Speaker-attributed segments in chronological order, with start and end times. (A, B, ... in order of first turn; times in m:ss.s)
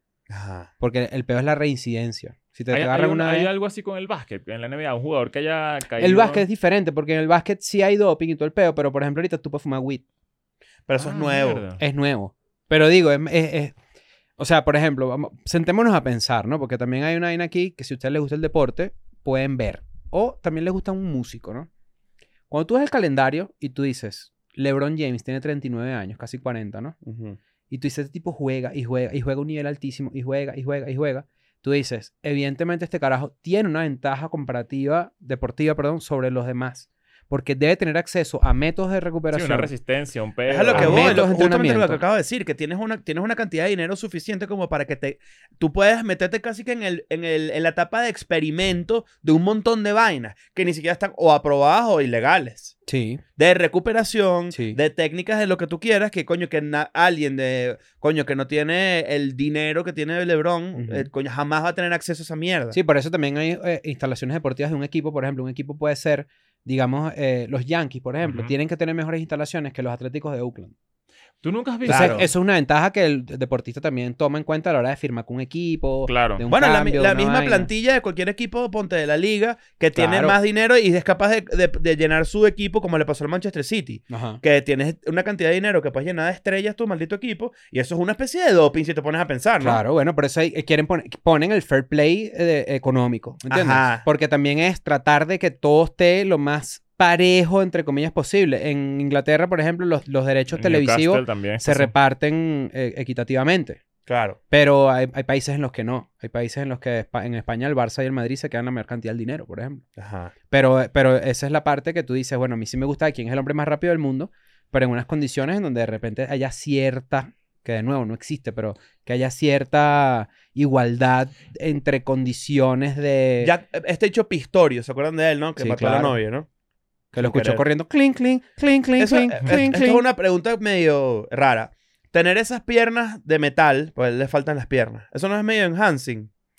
0:00.3-0:00.7 A
0:00.8-0:03.5 B
0:02.7-0:06.4 C
0:06.0-0:10.0 B
0:10.9-0:11.6 A
0:11.0-0:11.8 C
0:11.8-0:13.7 B
0:14.4-0:21.7 B
0:22.5-0:26.9 B
0:27.0-0:27.4 A
0:27.7-0:39.7 B
0:39.3-0:41.2 C
0:40.5-0:52.7 A
0:40.7-0:42.0 B
0:52.9-0:53.2 B
0:53.4-1:02.8 A
0:54.5-0:54.8 B
1:00.8-1:01.1 B
1:02.7-1:10.7 B
1:08.2-1:08.5 C
1:11.4-1:12.3 C
1:11.9-1:12.3 A
1:11.9-1:17.7 B
1:16.1-1:16.4 C
1:16.5-1:29.8 A
1:19.9-1:20.4 B
1:24.1-1:24.4 B
1:29.6-1:43.8 B
1:33.5-1:34.0 A
1:40.5-1:41.9 C
1:44.1-1:44.4 A
1:44.5-1:49.8 B
1:50.0-1:50.3 A
1:50.5-2:03.5 B
2:03.4-2:06.5 A
2:05.6-2:06.2 B
2:07.1-2:10.0 B
2:07.1-2:07.6 A
2:09.0-2:16.3 A